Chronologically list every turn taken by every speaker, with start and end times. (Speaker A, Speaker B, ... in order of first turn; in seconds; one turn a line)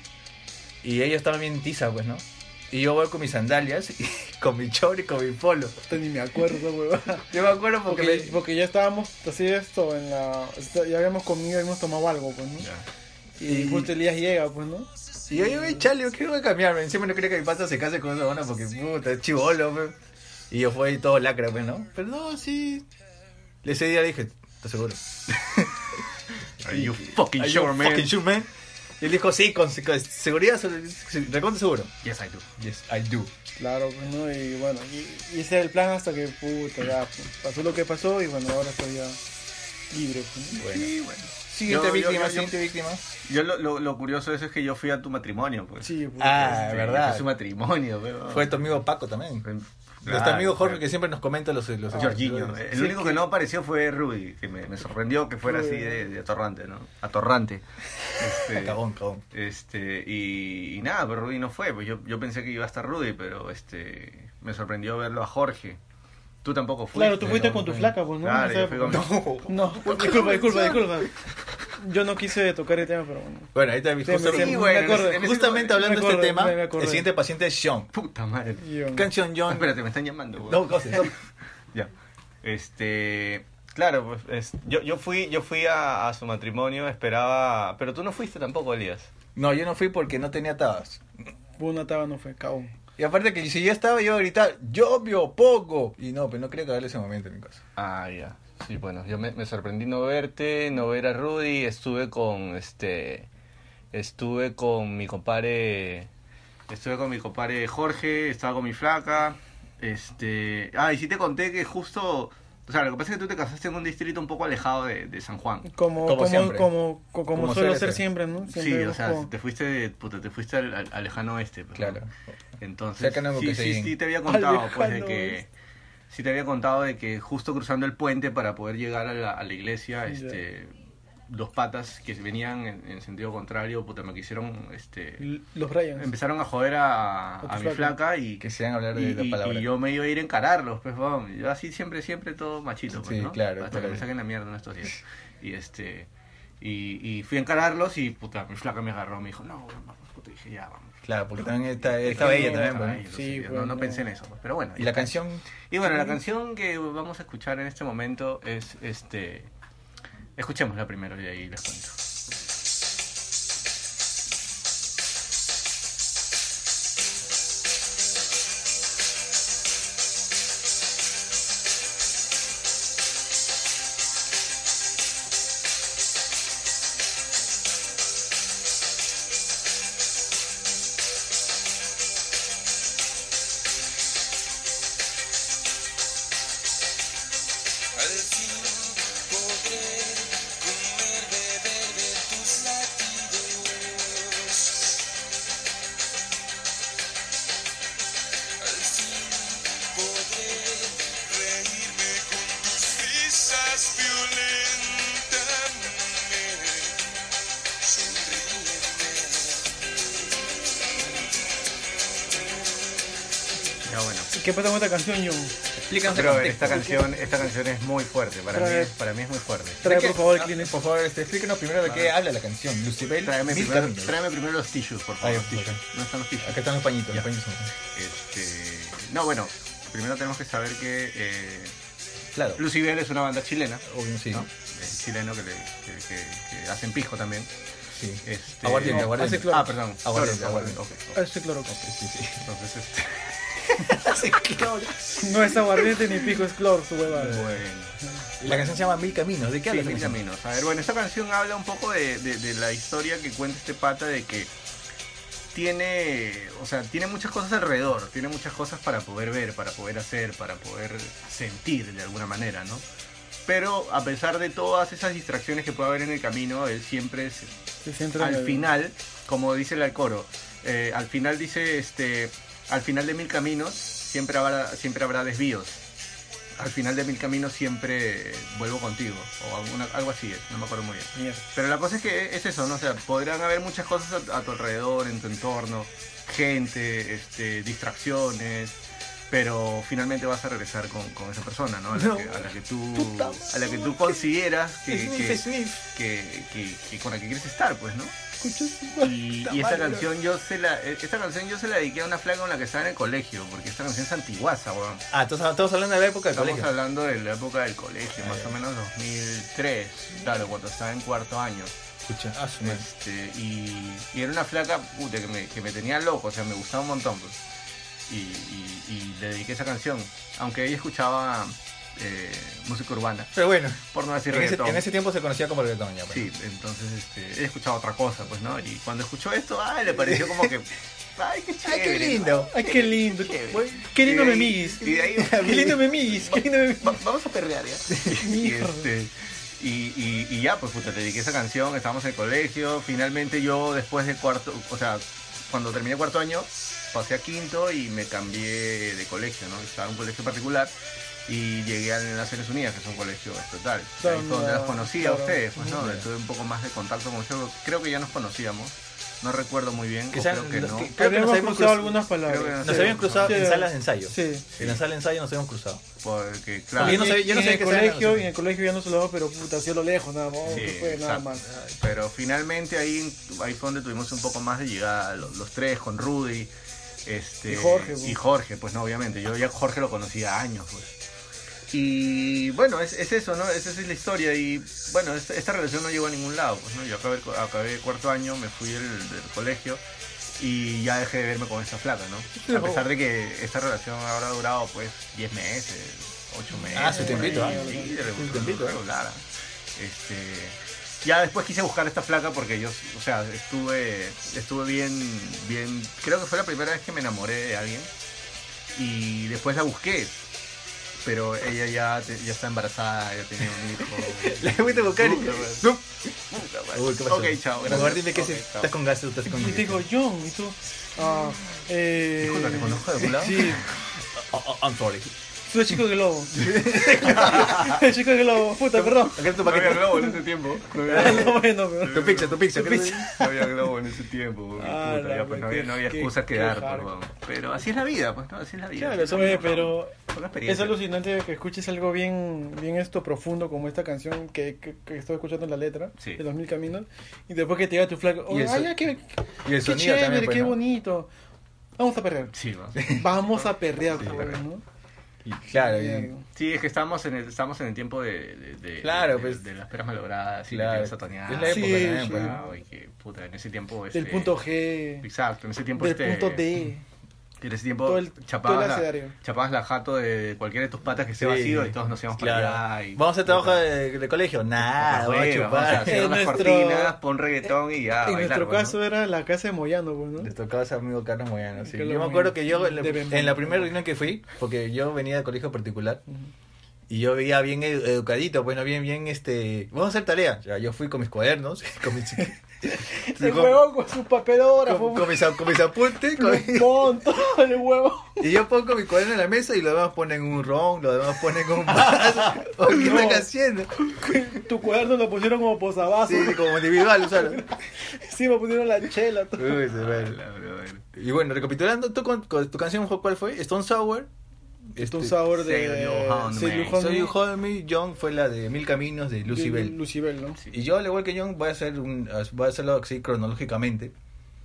Speaker A: 0.8-5.8
Speaker B: 5.9-7.3
Speaker A: 7.3-8.4
Speaker B: 7.9-12.7
Speaker B: 13.4-15.8
Speaker A: 13.4-13.9
Speaker A: 15.3-19.9
Speaker A: 20.5-22.9
Speaker A: 23.6-25.7
Speaker A: 26.6-31.9
Speaker C: 26.6-28.1
Speaker C: 32.0-32.5
Speaker A: 32.6-33.3
Speaker B: 33.6-39.2
Speaker B: 39.9-40.6
Speaker C: 40.5-42.5
Speaker A: 40.6-40.9
Speaker A: 41.5-43.0
Speaker C: 43.2-48.5
Speaker B: 45.8-46.7
Speaker A: 46.2-47.3
Speaker A: 48.3-49.5
Speaker C: 49.4-50.8
Speaker A: 50.0-52.6
Speaker C: 51.9-57.6
Speaker B: 52.7-53.2
Speaker B: 55.4-56.0
Speaker C: 58.2-58.8
Speaker A: 58.4-59.2
Speaker C: 59.3-65.8
Speaker C: 66.4-67.6
Speaker B: 66.9-71.1
Speaker A: 67.2-67.9
Speaker C: 68.2-69.2
Speaker A: 68.8-71.0
Speaker B: 71.8-73.5
Speaker A: 73.5-77.9
Speaker B: 74.0-77.1
Speaker C: 74.2-75.8
Speaker C: 77.9-78.6
Speaker B: 78.6-79.1
Speaker A: 78.9-79.7
Speaker C: 79.5-81.2
Speaker A: 80.5-81.1
Speaker C: 82.4-89.1
Speaker A: 89.3-91.0
Speaker B: 91.6-92.7
Speaker A: 93.0-97.6
Speaker C: 97.8-103.3
Speaker C: 103.9-106.1
Speaker C: 106.7-115.7
Speaker B: 115.7-119.3
Speaker A: 116.0-116.7
Speaker A: 117.3-118.0
Speaker C: 118.5-122.0
Speaker A: 121.8-122.1
Speaker C: 122.6-125.5
Speaker A: 123.0-124.0
Speaker B: 124.2-125.4
Speaker C: 126.1-130.8
Speaker B: 130.1-130.4
Speaker C: 131.3-135.2
Speaker B: 135.2-136.1
Speaker C: 135.9-146.1
Speaker B: 137.4-137.9
Speaker A: 138.4-139.7
Speaker A: 142.9-144.0
Speaker C: 146.6-151.0
Speaker A: 151.1-153.0
Speaker C: 152.0-155.2
Speaker B: 152.0-154.0
Speaker A: 154.8-155.5
Speaker C: 155.7-159.5
Speaker C: 160.4-161.9
Speaker D: 187.9-194.9
Speaker D: 198.6-206.9
Speaker D: 207.8-209.8
Speaker C: 213.8-214.3
Speaker B: 214.3-215.5
Speaker A: 215.8-217.0
Speaker C: 216.1-219.8
Speaker B: 216.7-217.1
Speaker B: 218.5-218.9
Speaker B: 219.8-220.7
Speaker A: 219.8-224.2
Speaker C: 221.8-222.1
Speaker C: 223.2-227.3
Speaker A: 225.2-225.8
Speaker A: 226.4-227.7
Speaker C: 227.9-231.7
Speaker A: 232.3-232.6
Speaker C: 232.6-237.5
Speaker A: 233.8-234.5
Speaker A: 237.9-240.8
Speaker C: 238.2-241.2
Speaker B: 238.8-239.7
Speaker B: 241.1-241.8
Speaker A: 241.7-242.4
Speaker C: 242.4-243.4
Speaker A: 243.6-246.1
Speaker B: 245.2-247.6
Speaker C: 247.1-248.8
Speaker A: 248.4-250.2
Speaker C: 249.7-254.5
Speaker C: 255.5-262.8
Speaker C: 263.5-267.5
Speaker B: 267.8-268.6
Speaker C: 268.2-275.8
Speaker C: 276.6-288.8
Speaker B: 281.1-281.4
Speaker C: 289.3-298.1
Speaker A: 291.9-294.3
Speaker A: 294.9-295.8
Speaker B: 298.5-299.0
Speaker A: 298.7-300.1
Speaker C: 299.0-305.0
Speaker A: 305.1-306.7
Speaker C: 306.3-311.7
Speaker A: 308.2-308.5
Speaker A: 312.1-312.8
Speaker C: 312.6-317.4
Speaker C: 318.1-323.3
Speaker A: 323.3-326.3
Speaker C: 323.9-324.8
Speaker C: 326.1-350.7
Speaker A: 330.0-330.5
Speaker A: 331.6-332.5
Speaker B: 332.5-337.0
Speaker A: 335.0-335.8
Speaker B: 338.1-338.9
Speaker C: 351.3-360.9
Speaker B: 354.0-355.6
Speaker A: 355.6-356.1
Speaker A: 360.1-362.0
Speaker B: 360.9-364.4
Speaker C: 362.2-363.5
Speaker A: 362.6-365.8
Speaker C: 364.6-364.8
Speaker C: 366.0-367.1
Speaker A: 366.8-368.3
Speaker B: 366.8-371.4
Speaker C: 370.5-371.3
Speaker A: 371.5-371.8
Speaker C: 371.8-376.5
Speaker C: 377.0-380.9
Speaker B: 377.5-378.2
Speaker C: 381.7-389.8
Speaker C: 390.4-399.2
Speaker A: 392.4-392.9
Speaker A: 396.7-398.8
Speaker B: 396.7-397.9
Speaker C: 399.8-407.9
Speaker C: 408.7-410.2
Speaker C: 411.0-415.7
Speaker A: 413.8-416.1
Speaker C: 416.3-418.7
Speaker A: 416.7-419.8
Speaker B: 419.3-423.7
Speaker C: 422.2-423.6
Speaker A: 423.6-425.1
Speaker B: 425.5-430.2
Speaker A: 426.3-427.8
Speaker C: 427.0-427.7
Speaker A: 428.7-430.1
Speaker C: 429.2-440.8
Speaker B: 430.9-432.3
Speaker A: 430.9-431.3
Speaker A: 431.9-433.2
Speaker B: 434.6-436.9
Speaker A: 438.8-439.3
Speaker B: 439.0-439.9
Speaker B: 440.4-451.1
Speaker A: 448.3-448.9
Speaker A: 449.4-450.6
Speaker B: 451.8-454.6
Speaker C: 452.3-454.4
Speaker A: 455.2-456.1
Speaker B: 455.5-456.2
Speaker C: 456.3-464.4
Speaker A: 458.8-459.4
Speaker A: 460.5-462.4
Speaker B: 461.5-462.4
Speaker B: 463.9-465.1
Speaker C: 465.0-466.4
Speaker B: 465.8-466.8
Speaker C: 467.4-473.6
Speaker B: 467.8-469.1
Speaker A: 471.2-476.1
Speaker C: 474.8-478.8
Speaker B: 475.8-476.9
Speaker B: 478.0-480.3
Speaker A: 480.2-486.0
Speaker B: 481.6-483.7
Speaker A: 486.9-493.6
Speaker B: 492.8-498.2
Speaker A: 494.6-496.9
Speaker A: 498.2-504.2
Speaker B: 502.3-503.3
Speaker B: 504.0-509.6
Speaker A: 506.0-507.4
Speaker A: 509.4-510.2
Speaker C: 509.7-510.8
Speaker A: 510.9-514.1
Speaker A: 514.7-515.2
Speaker B: 514.8-517.1
Speaker C: 515.3-516.8
Speaker A: 516.7-519.8
Speaker B: 519.3-520.4
Speaker A: 520.5-523.9